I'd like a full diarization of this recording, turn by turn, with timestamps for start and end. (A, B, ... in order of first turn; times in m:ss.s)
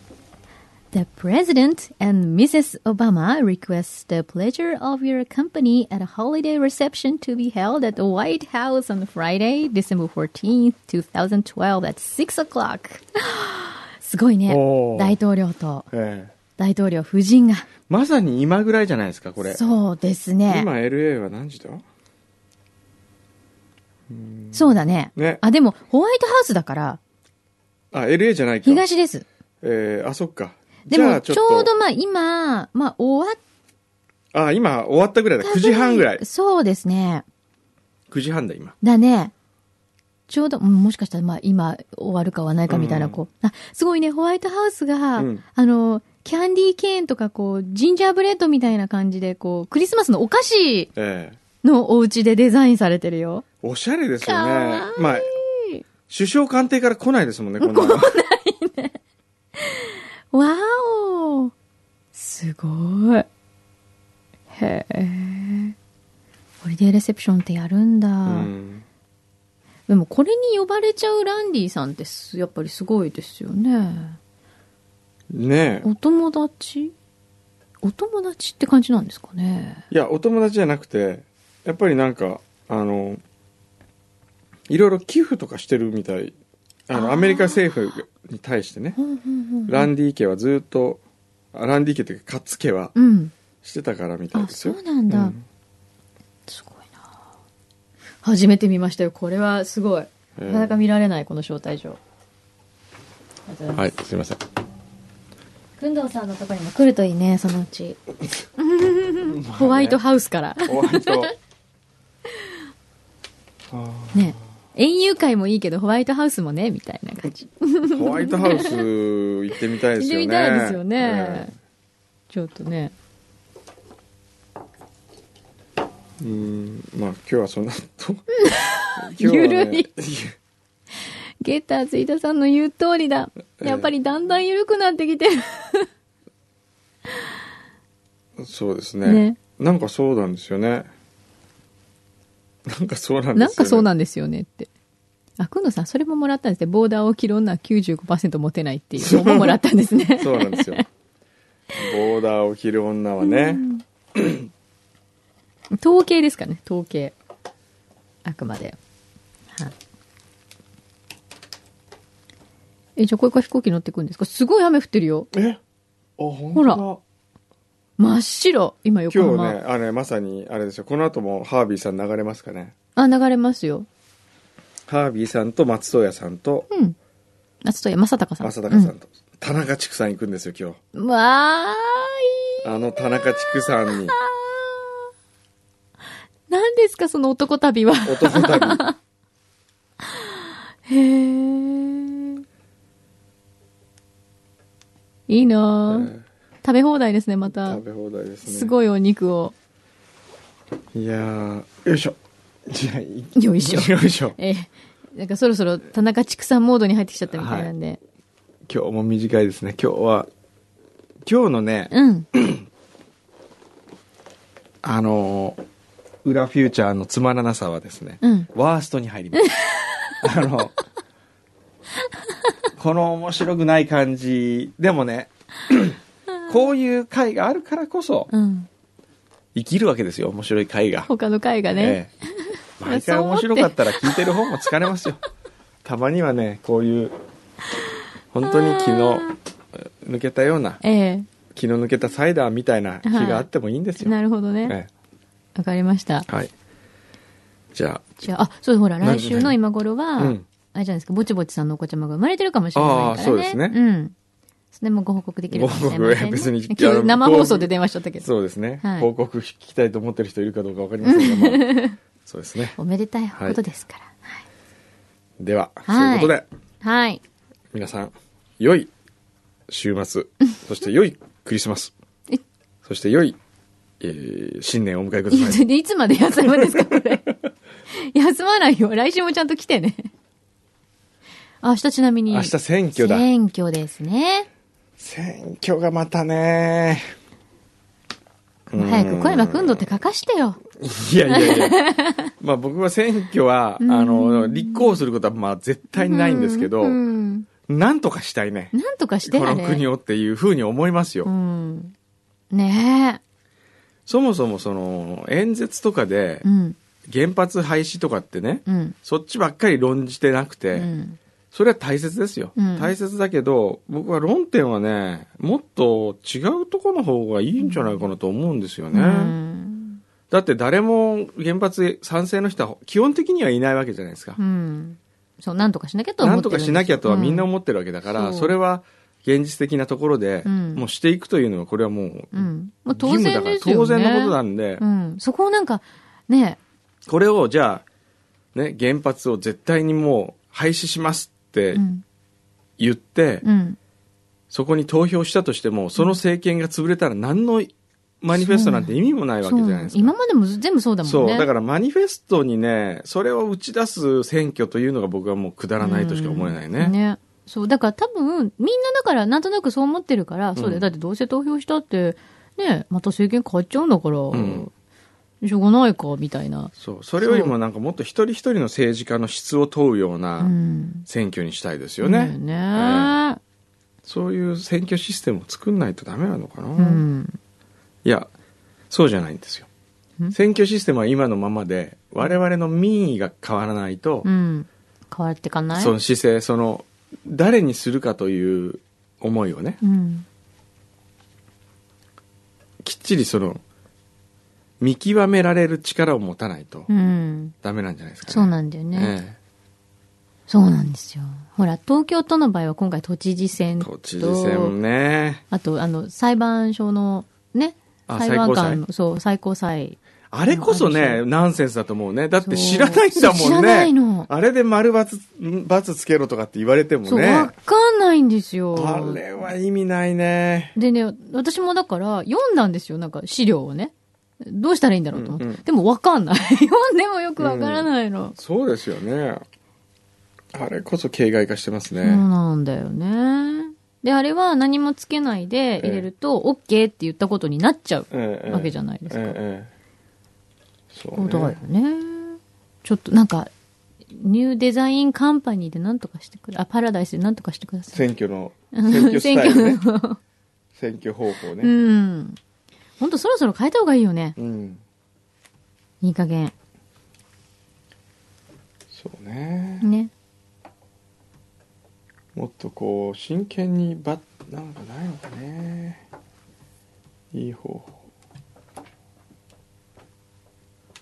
0:00.9-0:15.9 A
0:14.5-0:15.2 B
0:15.9-0:16.3 B
0:16.6-0:17.7 A
0:17.9-0:19.6 B
0:19.4-0:20.7 A
0:20.5-0:21.8 B
0:24.1-0:25.4 B
0:24.5-0:27.0 A
0:27.9-0:28.8 B
0:28.6-0:29.2 A
0:29.6-0:31.7 B
0:30.9-0:33.4 A
0:34.3-0:36.2 B
0:35.4-0:37.2 A
0:38.1-0:38.7 B
0:38.8-0:39.3 A
0:40.3-0:50.9 A
0:42.7-0:43.2 B
0:45.2-0:45.4 B
0:51.0-0:51.4 B
0:51.6-0:53.4 A
0:53.6-0:55.3 B
0:54.2-0:55.8 A
0:56.1-0:58.1 B
0:57.6-0:59.0 A
0:59.6-1:01.5 A
1:02.1-1:03.3 A
1:04.5-1:05.7 A
1:06.6-1:08.5 A
1:08.2-1:08.8 B
1:09.9-1:14.2 A
1:15.3-1:15.9 B
1:15.8-1:16.9 A
1:17.8-1:19.8 A
1:19.9-1:23.2 B
1:24.7-1:26.3 B
1:26.9-1:29.0 B
1:26.9-1:27.6 A
1:29.0-1:29.9 A
1:29.7-1:31.0 B
1:31.5-1:32.9 B
1:32.9-1:33.3 A
1:33.6-1:35.4 B
1:34.3-1:35.4 A
1:36.5-1:37.0 A
1:38.2-1:42.0 A
1:40.4-1:40.8 B
1:43.4-1:43.9 A
1:43.8-1:44.4 B
1:45.8-1:48.0 A
1:48.6-1:51.3 A
1:49.3-1:50.0 B
1:50.6-1:51.3 B
1:53.7-1:54.3 B
1:54.1-1:58.8 A
1:57.9-2:01.5 B
2:00.0-2:01.5 A
2:02.3-2:02.9 A
2:06.2-2:08.3 B
2:08.4-2:09.9 A
2:09.0-2:10.4 B
2:11.4-2:15.9 A
2:13.6-2:13.9 B
2:18.4-2:20.9 B
2:19.0-2:19.4 A
2:22.6-2:23.9 B
2:23.3-2:24.7 A
2:25.4-2:30.8 A
2:29.0-2:29.6 B
2:30.2-2:30.8 B
2:31.7-2:33.6 B
2:33.2-2:33.8 A
2:34.1-2:34.5 B
2:35.8-2:37.1 A
2:38.2-2:38.8 A
2:43.0-2:45.3 A
2:45.3-2:45.6 B
2:46.2-2:47.0 B
2:46.5-2:46.8 A
2:48.0-2:49.6 A
2:49.1-2:52.7 B
2:53.0-2:53.9 A
2:54.9-2:56.7 B
2:56.7-2:57.0 A
2:57.6-2:58.9 A
2:58.4-3:00.8 B
3:00.9-3:05.0 A
3:02.6-3:04.2 B
3:06.5-3:09.0 A
3:08.0-3:08.8 B
3:10.9-3:12.4 A
3:15.3-3:17.8 A
3:15.9-3:16.2 B
3:17.5-3:18.7 B
3:18.4-3:19.5 A
3:20.9-3:24.4 B
3:23.3-3:28.0 A
3:27.3-3:27.7 B
3:28.7-3:30.3 B
3:31.2-3:32.6 B
3:31.9-3:32.3 A
3:34.8-3:35.6 B
3:36.2-3:39.5 B
3:38.2-3:38.5 A
3:39.3-3:40.1 A
3:40.2-3:40.7 B
3:42.8-3:48.3 B
3:48.3-3:48.7 A
3:49.5-3:51.1 B
3:51.1-3:54.7 A
3:51.8-3:52.1 B
3:52.8-3:55.2 B
3:55.8-3:57.1 B
3:58.3-4:00.8 B
3:58.4-3:59.4 A
4:00.8-4:01.3 A
4:01.5-4:04.9 B
4:03.0-4:03.5 A
4:04.0-4:04.7 A
4:05.5-4:06.3 A
4:07.7-4:08.2 B
4:08.2-4:14.1 A
4:09.0-4:09.6 B
4:10.2-4:10.4 B
4:12.7-4:13.8 B
4:14.7-4:18.3 A
4:15.5-4:22.8 B
4:18.8-4:19.1 A
4:21.0-4:22.0 A
4:22.8-4:24.4 A
4:23.3-4:23.6 B
4:25.4-4:26.4 B
4:25.9-4:27.2 A
4:27.7-4:28.9 B
4:29.7-4:31.9 B
4:32.8-4:33.4 B
4:34.0-4:35.6 B
4:35.3-4:37.3 A
4:36.6-4:37.3 B
4:37.9-4:40.1 A
4:41.6-4:44.5 A
4:42.3-4:43.3 B
4:45.0-4:47.1 B
4:48.7-4:49.8 B
4:48.7-4:50.6 A
4:50.7-4:51.8 B
4:51.3-4:52.3 A
4:52.4-4:57.0 B
4:53.8-4:55.0 A
4:55.9-4:57.5 A
4:57.6-5:01.3 B
4:58.7-4:59.8 A
5:01.2-5:01.9 A
5:02.5-5:03.2 A
5:04.0-5:06.4 B
5:06.4-5:06.8 A
5:07.1-5:10.9 B
5:08.6-5:08.9 A
5:10.7-5:11.2 A
5:11.5-5:19.3 B
5:12.6-5:12.9 A
5:17.6-5:18.0 A
5:18.9-5:20.0 A
5:20.3-5:24.4 B
5:24.4-5:27.5 A
5:26.2-5:34.8 B
5:28.0-5:28.5 A
5:30.4-5:30.8 A
5:32.3-5:36.6 A
5:37.0-5:37.8 B
5:38.5-5:41.8 B
5:41.7-5:42.0 A
5:42.8-5:43.4 B
5:43.4-5:43.8 A
5:44.5-5:50.1 B
5:48.3-5:51.5 A
5:51.0-5:56.9 B
5:55.8-6:04.7 A
6:00.6-6:00.9 B
6:04.3-6:04.7 B
6:05.4-6:07.5 A
6:06.8-6:10.5 B
6:10.4-6:11.1 A
6:11.1-6:13.2 B
6:12.0-6:13.4 A
6:14.0-6:17.0 B
6:16.8-6:17.4 A
6:18.0-6:18.3 B
6:18.9-6:19.7 B
6:20.3-6:24.3 B
6:24.2-6:25.9 A
6:25.7-6:29.8 B
6:29.8-6:30.2 A
6:32.8-6:33.6 B
6:34.8-6:36.9 B
6:36.9-6:37.5 A
6:37.6-6:39.4 B
6:38.3-6:39.1 A
6:40.5-6:44.8 A
6:43.8-6:45.4 B
6:45.5-6:50.0 A
6:48.1-6:48.8 B
6:50.3-6:57.5 B
6:50.5-6:51.2 A
6:52.4-6:54.3 A
6:57.0-6:59.2 A
6:58.7-7:00.8 B
7:00.7-7:08.4 A
7:05.1-7:05.6 B
7:07.4-7:09.4 B
7:10.5-7:12.2 B
7:12.0-7:19.4 A
7:15.8-7:16.0 B
7:18.1-7:19.7 B
7:20.9-7:21.6 B
7:21.1-7:23.5 A
7:24.1-7:28.0 A
7:27.9-7:29.8 B
7:28.7-7:30.2 A
7:30.7-7:31.7 B
7:31.6-7:32.4 A
7:33.0-7:34.4 A
7:34.4-7:34.8 B
7:36.0-7:36.5 A
7:38.9-7:39.9 B
7:39.8-7:40.1 A
7:42.3-7:46.0 B
7:47.3-7:47.9 B